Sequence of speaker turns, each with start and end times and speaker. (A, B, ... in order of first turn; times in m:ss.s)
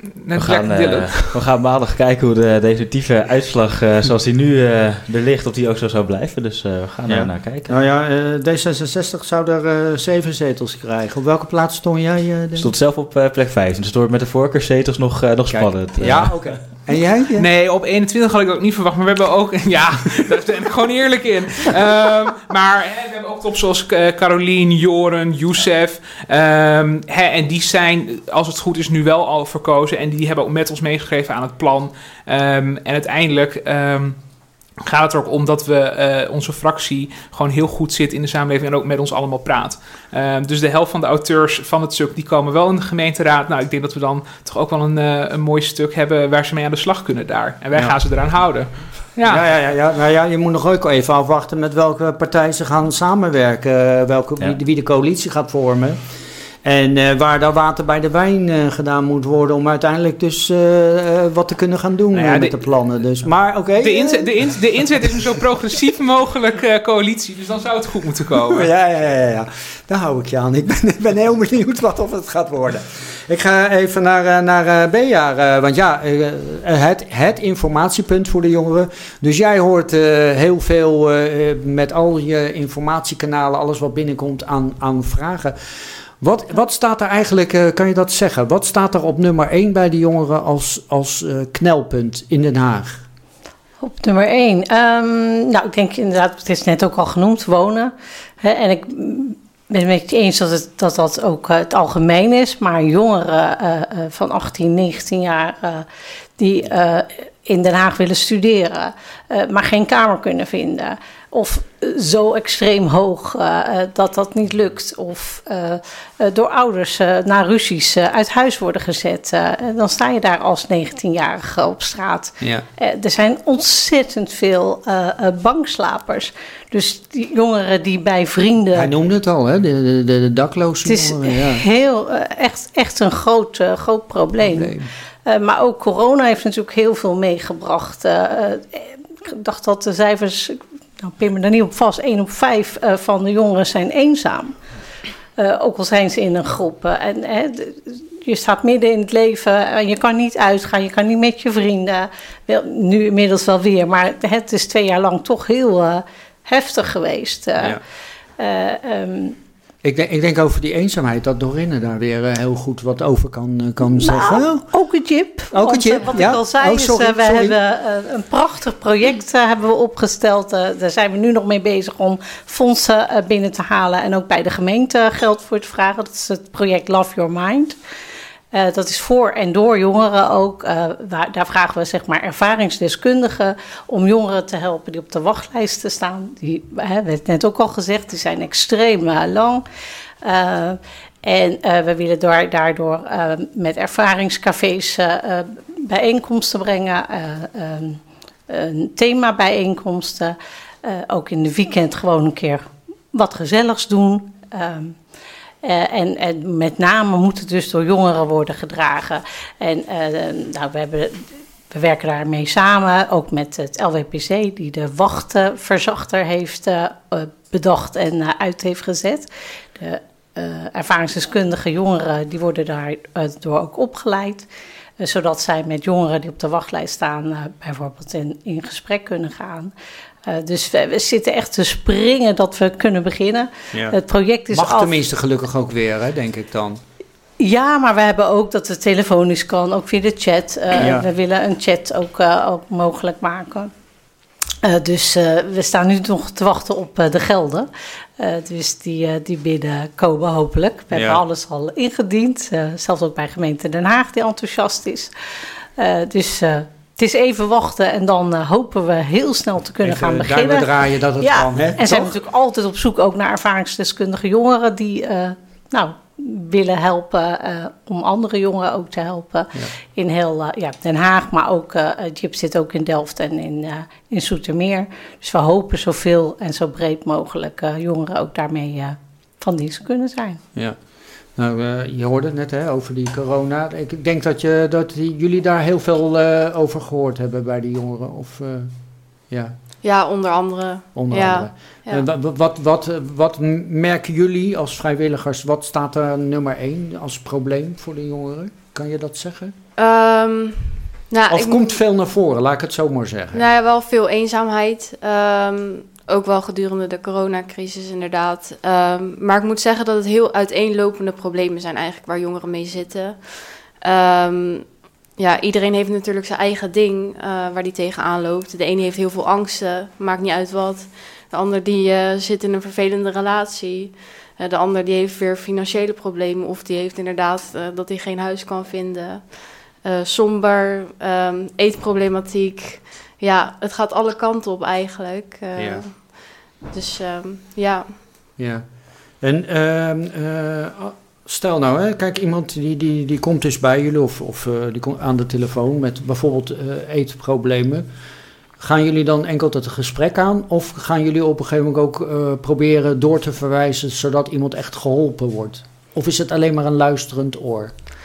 0:00.2-0:01.3 A
0:00.3-0:07.7 B
0:07.1-0:12.7 C
0:12.6-0:16.5 B
0:15.5-0:17.5 C
0:17.4-0:34.2 A
0:34.8-0:49.4 A
0:49.3-0:56.0 C
0:56.6-1:04.6 C
1:02.1-1:02.6 A
1:03.8-1:08.7 A
1:08.5-1:33.0 C
1:33.8-1:45.9 D
1:46.4-2:08.9 D
2:02.4-2:02.7 C
2:08.8-2:11.6 C
2:10.9-2:14.7 D
2:14.5-2:14.9 C
2:15.3-2:24.6 D
2:25.4-2:37.8 D
2:38.4-2:39.4 D
2:39.8-2:44.7 C
2:44.0-2:57.8 D
2:45.5-2:47.6 C
2:58.5-3:09.6 D
3:10.2-3:25.0 D
3:25.6-3:44.5 D
3:45.0-3:49.7 D
3:50.3-3:55.0 D
3:53.7-3:54.0 C
3:54.5-3:56.8 C
3:57.4-4:03.7 D
4:00.7-4:01.1 C
4:04.6-4:07.7 D
4:08.2-4:15.1 D
4:10.9-4:11.2 C
4:15.8-4:20.7 D
4:19.8-4:22.2 C
4:21.2-4:40.4 D
4:40.5-4:49.6 C
4:49.8-4:52.0 E
4:51.0-4:59.6 C
4:59.8-5:01.8 E
5:01.3-5:03.4 C
5:03.3-5:38.0 E
5:35.6-5:35.8 C
5:38.4-5:47.9 C
5:48.6-5:57.7 C